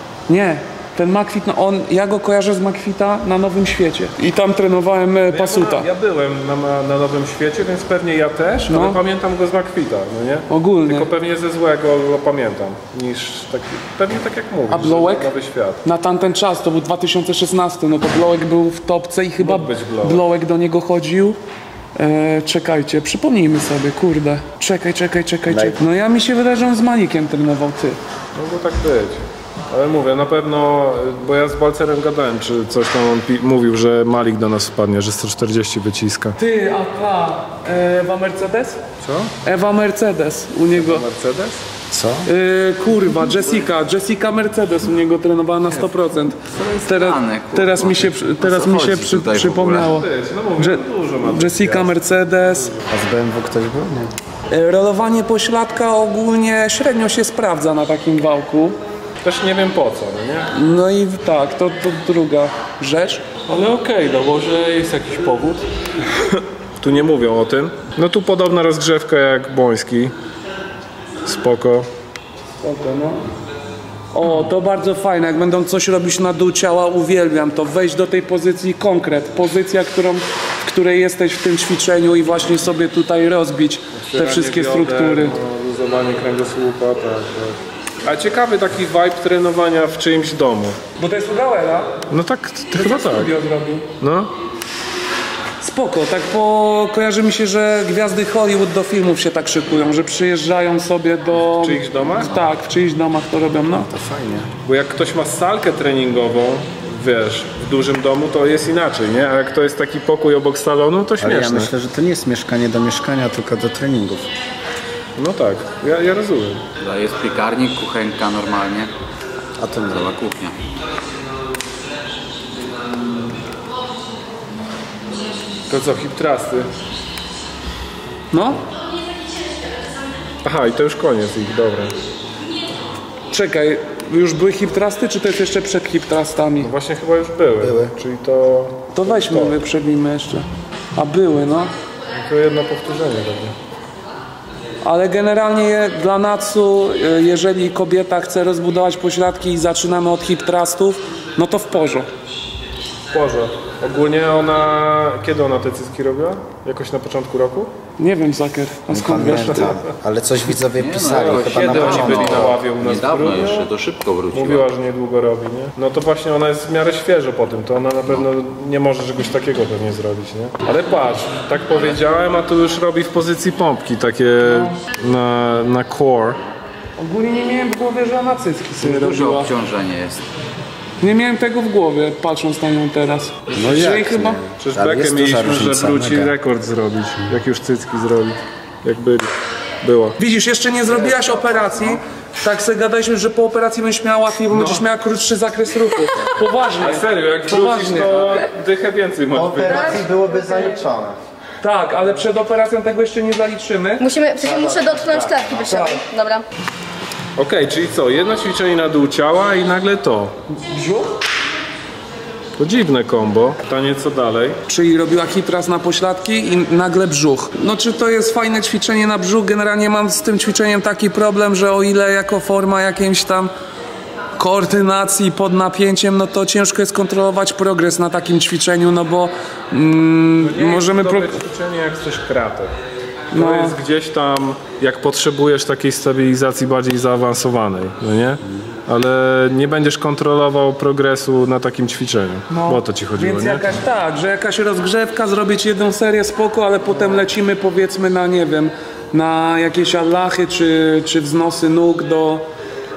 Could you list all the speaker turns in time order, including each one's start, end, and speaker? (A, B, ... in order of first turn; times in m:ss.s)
0:00.3-0:05.9 A
0:05.3-0:15.8 B
0:08.7-0:09.0 A
0:10.5-0:11.1 A
0:14.7-0:15.3 A
0:15.8-0:21.4 A
0:19.4-0:20.2 B
0:22.0-0:28.0 A
0:25.5-0:25.8 C
0:28.3-0:36.4 B
0:36.4-0:38.8 A
0:39.0-0:39.3 B
0:39.4-0:41.0 A
0:40.7-0:41.6 B
0:41.9-0:42.3 C
0:42.2-0:52.7 A
0:46.5-0:49.9 D
0:49.8-0:52.0 B
0:52.5-0:52.8 B
0:52.9-0:54.1 C
0:54.5-0:58.8 A
0:59.2-1:00.5 B
1:00.5-1:03.2 A
1:03.4-1:10.1 B
1:11.2-1:11.9 B
1:12.6-1:13.2 A
1:14.1-1:25.4 A
1:24.0-1:30.8 B
1:31.0-1:32.0 A
1:32.1-1:33.3 B
1:32.8-1:33.9 A
1:34.0-1:34.3 B
1:35.6-1:43.9 A
1:41.3-1:42.4 B
1:43.7-1:44.5 C
1:44.6-1:51.7 B
1:51.2-1:54.3 C
1:55.2-1:56.6 B
1:56.8-1:58.9 D
1:59.6-2:00.1 C
1:59.8-2:00.5 D
2:05.7-2:06.7 B
2:08.3-2:08.6 A
2:10.4-2:11.9 B
2:13.3-2:16.7 A
2:16.6-2:19.6 B
2:17.6-2:17.9 C
2:18.9-2:21.7 A
2:22.1-2:23.5 B
2:24.8-2:32.1 A
2:33.1-2:37.7 B
2:38.0-2:39.8 A
2:38.9-2:42.6 C
2:39.3-2:39.7 B
2:40.7-2:44.7 D
2:41.0-2:43.7 B
2:44.3-2:56.4 B
2:57.0-2:59.5 A
2:58.8-3:00.2 D
3:01.0-3:04.4 A
3:03.5-3:06.3 C
3:04.6-3:09.3 B
3:09.8-3:10.2 B
3:10.2-3:18.4 A
3:14.5-3:14.8 B
3:16.8-3:20.1 B
3:19.3-3:21.2 C
3:19.7-3:20.7 E
3:21.6-3:24.1 A
3:24.0-3:26.4 E
3:24.4-3:26.0 C
3:27.4-3:30.3 B
3:30.5-3:31.1 A
3:32.6-3:34.6 B
3:34.7-3:43.5 A
3:44.4-3:51.4 A
3:50.4-3:52.7 B
3:53.3-3:53.8 A
3:53.3-4:03.7 B
4:02.5-4:12.4 A